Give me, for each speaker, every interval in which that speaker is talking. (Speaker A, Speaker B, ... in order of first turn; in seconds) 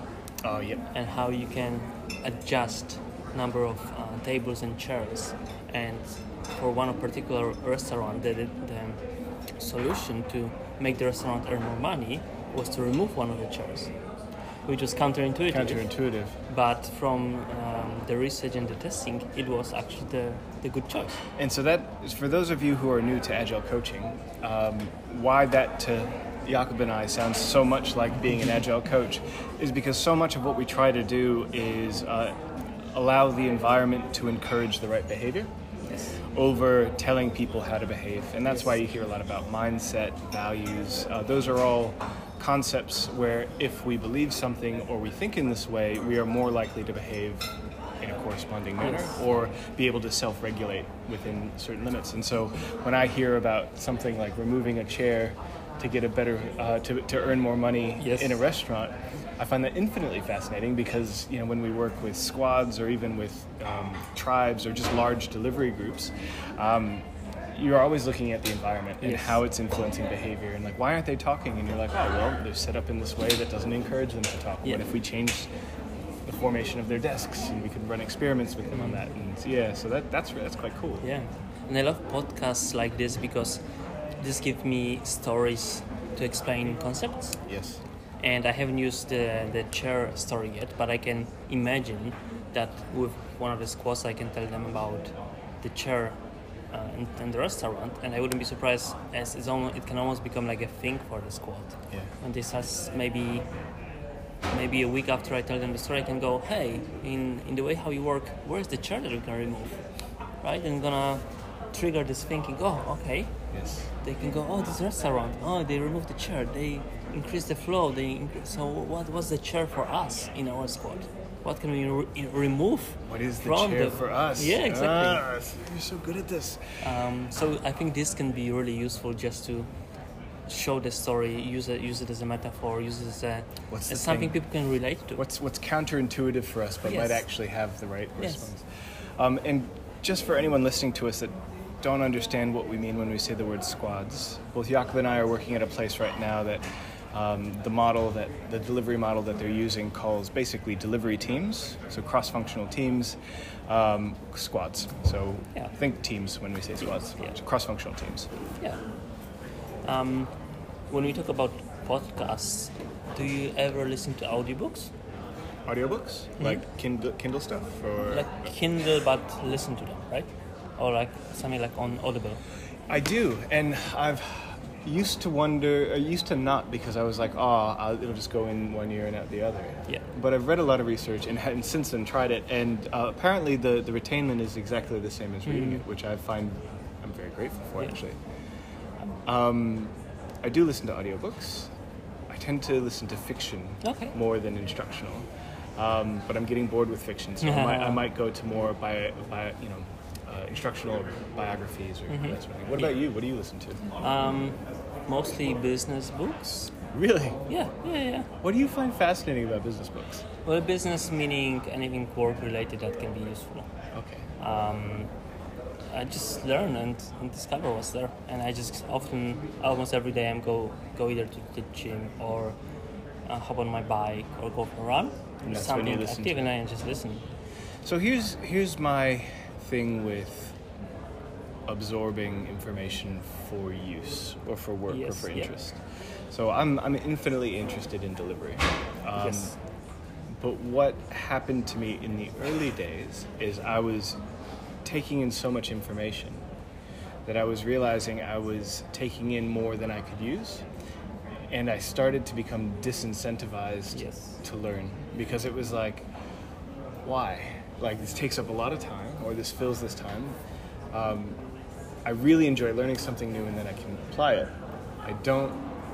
Speaker A: 0.4-0.8, 15.5-16.4, 21.4-35.5, 36.3-47.5, 48.0-75.5, 76.2-81.0, 87.5-87.8, 113.5-113.9, 123.1-126.8, 133.7-134.4, 135.2-138.6, 139.2-158.3, 165.7-168.5, 172.9-188.2, 189.2-191.7, 192.3-203.8, 206.8-207.5, 208.4-210.2, 213.9-214.3, 225.4-226.4, 227.8-230.6, 231.7-239.5, 240.4-244.2, 244.8-246.4, 247.2-250.6, 251.5-256.1, 257.0-260.4, 260.9-261.4, 262.0-264.5, 265.0-265.6
Speaker B: 0.9-9.0, 9.6-13.9, 14.6-15.9, 16.5-21.2, 35.9-36.2, 48.8-49.2, 58.0-58.4, 69.0-69.4, 74.6-74.9, 78.7-79.1, 81.0-83.6, 84.2-87.4, 88.2-95.1, 95.6-96.2, 96.7-103.5, 104.5-109.8, 110.4-113.3, 114.0-125.2, 126.8-129.7, 130.5-135.2, 136.8-137.2, 138.2-138.5, 159.8-160.3, 160.9-164.9, 168.1-172.4, 185.4-185.8, 193.8-194.1, 197.4-198.1, 202.1-202.9, 204.0-206.7, 207.5-208.3, 210.4-213.7, 214.4-215.1, 215.9-222.6, 223.2-227.2, 234.9-235.5, 239.2-239.6, 253.9-254.4